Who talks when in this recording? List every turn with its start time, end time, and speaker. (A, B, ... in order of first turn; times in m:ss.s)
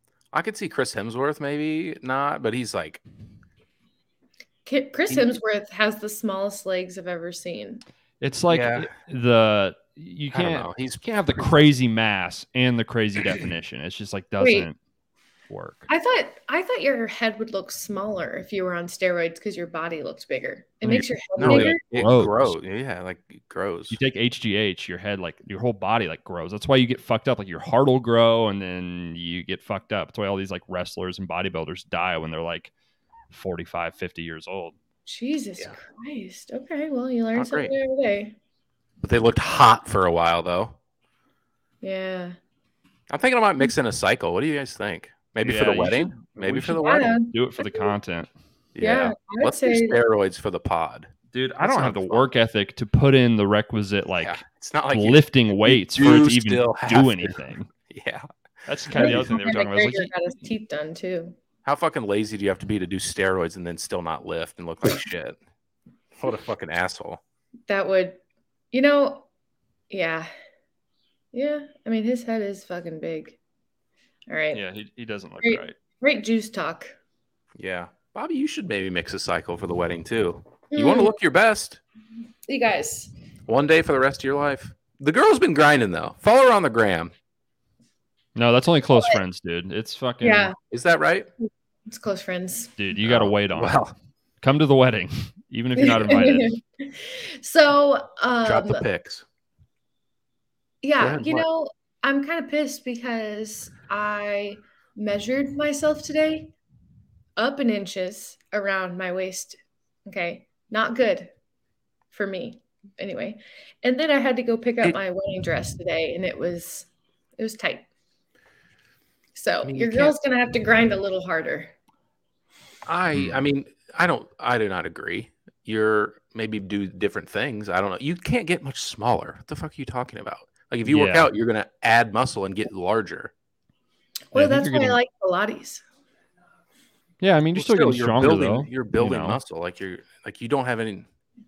0:00.3-0:03.0 A
0:04.6-0:07.8 B
0:08.2-0:14.8 C
0:08.5-0:08.9 A
0:10.3-0:11.7 A
0:14.4-0:14.7 B
0:15.5-0:15.9 C
0:15.9-0:21.8 B
0:20.9-0:22.6 C
0:21.4-0:24.0 A
0:23.9-0:32.7 C
0:33.3-0:34.7 C
0:35.0-0:38.3 B
0:37.3-0:37.7 A
0:39.0-0:40.7 A
0:41.8-0:42.4 B
0:43.1-0:47.2 A
0:45.4-0:48.3 C
0:46.8-0:47.9 B
0:48.7-0:52.3 A
0:48.8-0:50.0 B
0:51.3-0:57.7 C
0:54.2-0:58.3 A
0:58.7-1:00.1 C
0:58.9-0:59.3 A
0:58.9-1:01.3 B
1:01.6-1:05.4 A
1:06.2-1:07.2 A
1:07.7-1:08.2 B
1:08.7-1:09.2 B
1:09.9-1:10.3 B
1:11.3-1:13.4 B
1:14.3-1:14.6 B
1:14.5-1:15.7 C
1:15.4-1:16.9 B
1:17.5-1:21.8 A
1:20.7-1:21.1 B
1:22.5-1:23.1 B
1:23.5-1:27.1 A
1:28.3-1:30.5 C
1:28.9-1:29.2 B
1:30.2-1:30.5 B
1:30.7-1:31.3 A
1:31.4-1:32.7 B
1:32.8-1:33.8 C
1:33.0-1:33.9 A
1:34.4-1:36.5 C
1:35.8-1:38.8 B
1:38.4-1:39.2 A
1:40.8-1:46.5 B
1:41.0-1:41.4 A
1:47.4-1:51.3 B
1:52.1-1:57.9 B
1:59.3-2:01.7 B
1:59.6-2:00.1 A
2:02.8-2:13.3 A
2:03.1-2:03.4 C
2:10.8-2:11.3 C
2:14.3-2:15.8 B
2:14.3-2:15.0 C
2:17.2-2:19.4 C
2:17.5-2:21.1 A